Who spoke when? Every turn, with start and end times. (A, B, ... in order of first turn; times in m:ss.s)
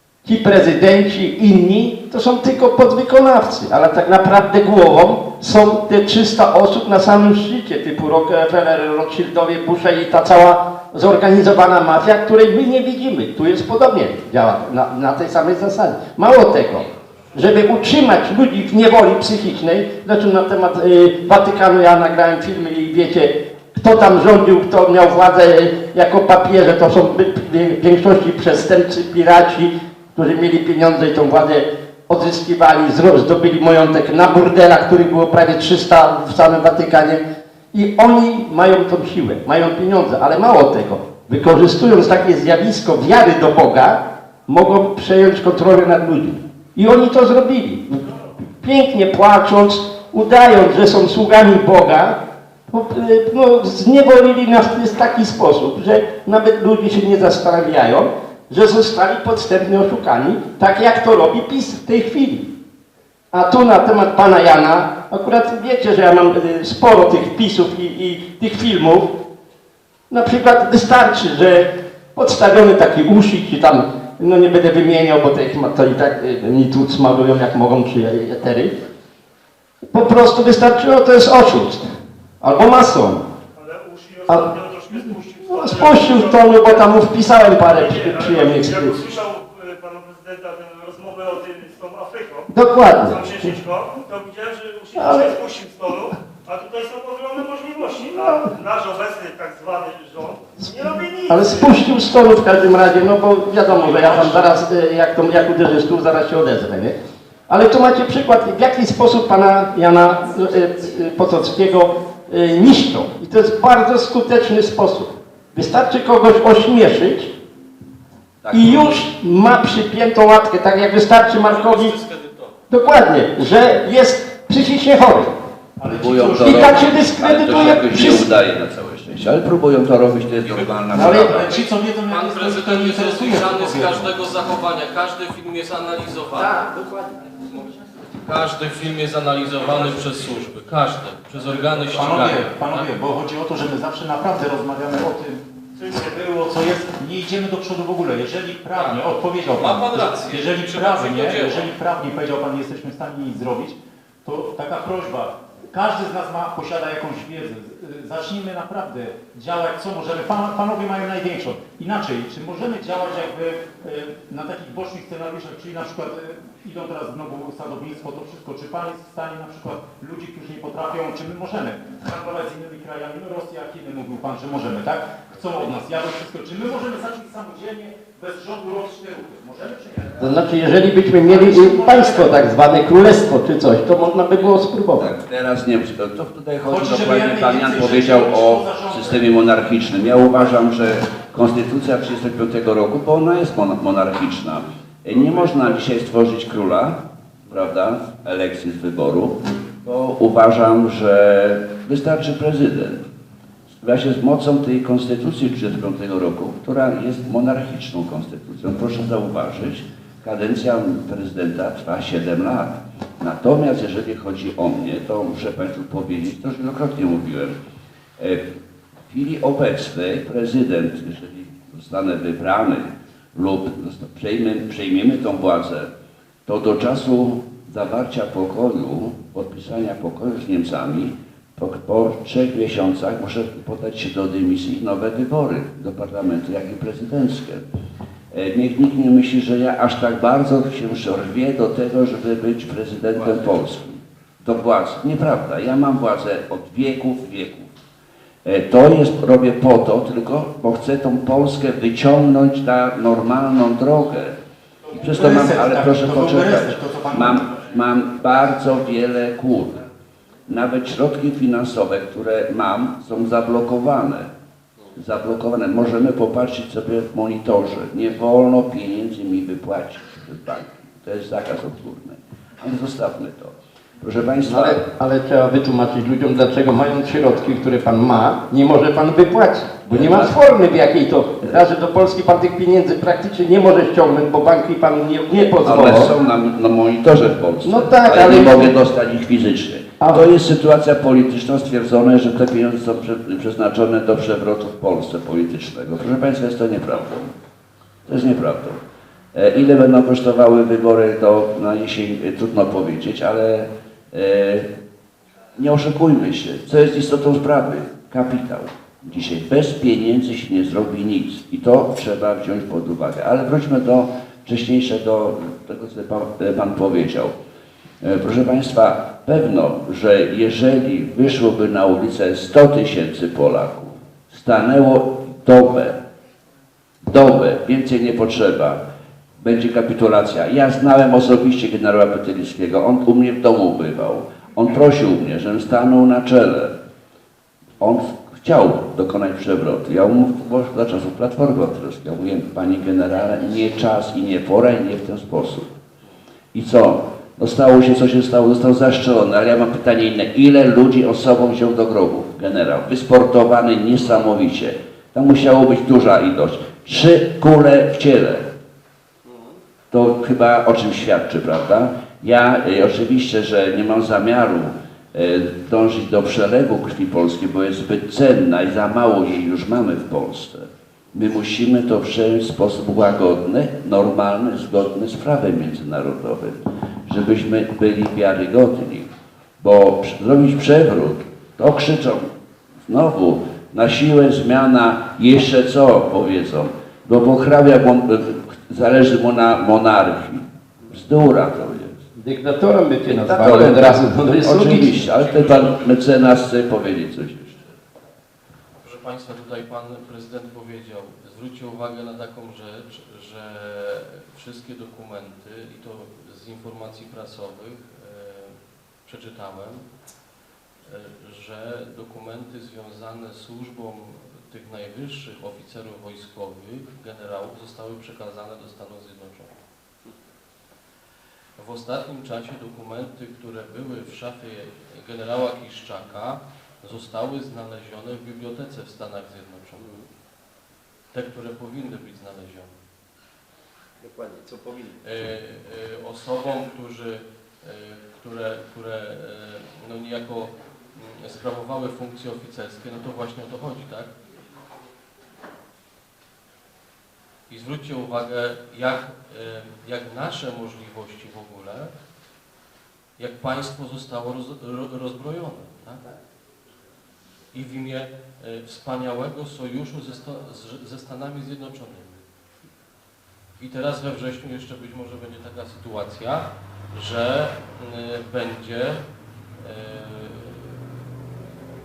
0:00.2-0:37.2 A
0:37.7-0:52.2 A
0:52.7-1:02.5 A
1:03.3-1:09.2 A
1:10.1-1:18.8 A
1:19.9-1:21.9 A
1:22.4-1:23.2 A
1:23.6-1:27.0 B
1:25.5-1:29.0 A
1:27.7-1:32.5 B
1:32.5-1:33.5 A
1:33.0-1:41.8 B
1:35.0-1:35.3 A
1:38.2-1:38.5 A
1:41.3-1:46.9 A
1:43.7-1:44.5 B
1:47.5-1:57.3 A
1:58.4-1:59.0 C
1:58.5-2:02.0 A
2:01.4-2:02.6 D
2:02.7-2:05.3 A
2:05.8-2:06.9 E
2:05.9-2:11.5 C
2:06.4-2:08.3 A
2:10.4-2:16.6 D
2:10.9-2:11.4 A
2:10.9-2:14.1 E
2:18.2-2:22.9 D
2:21.8-3:00.4 E
2:28.8-2:31.7 D
3:00.2-3:05.1 A
3:01.3-3:02.4 E
3:05.0-3:23.1 C
3:06.7-3:09.2 E
3:23.8-3:37.6 C
3:38.2-3:38.5 C
3:39.1-3:45.9 C
3:46.4-3:57.6 C
3:58.3-4:07.7 C
4:08.4-4:14.4 C
4:14.9-4:17.6 E
4:15.0-4:19.8 C
4:20.5-4:24.3 C
4:24.9-4:34.8 C
4:34.4-4:46.1 A
4:39.9-4:40.3 C
4:45.3-4:57.3 C
4:47.6-4:48.7 A
4:50.0-4:50.3 A
4:58.0-4:58.8 C
4:59.3-5:04.7 C
5:05.6-5:17.3 C
5:18.0-5:26.0 C
5:27.0-5:28.8 C
5:29.4-5:36.7 C
5:37.8-5:45.7 C
5:46.5-5:58.5 C
5:59.9-6:22.3 C
6:22.8-6:32.0 C
6:32.2-6:34.9 A
6:33.1-6:37.7 C
6:35.1-6:36.0 D
6:38.8-6:49.9 D
6:50.9-6:59.6 D
7:01.6-7:09.9 D
7:11.1-7:12.7 D
7:15.0-7:24.1 D
7:27.5-7:31.9 D
7:33.2-7:36.0 D
7:37.5-7:42.2 D
7:43.6-7:49.0 D
7:49.6-7:51.0 D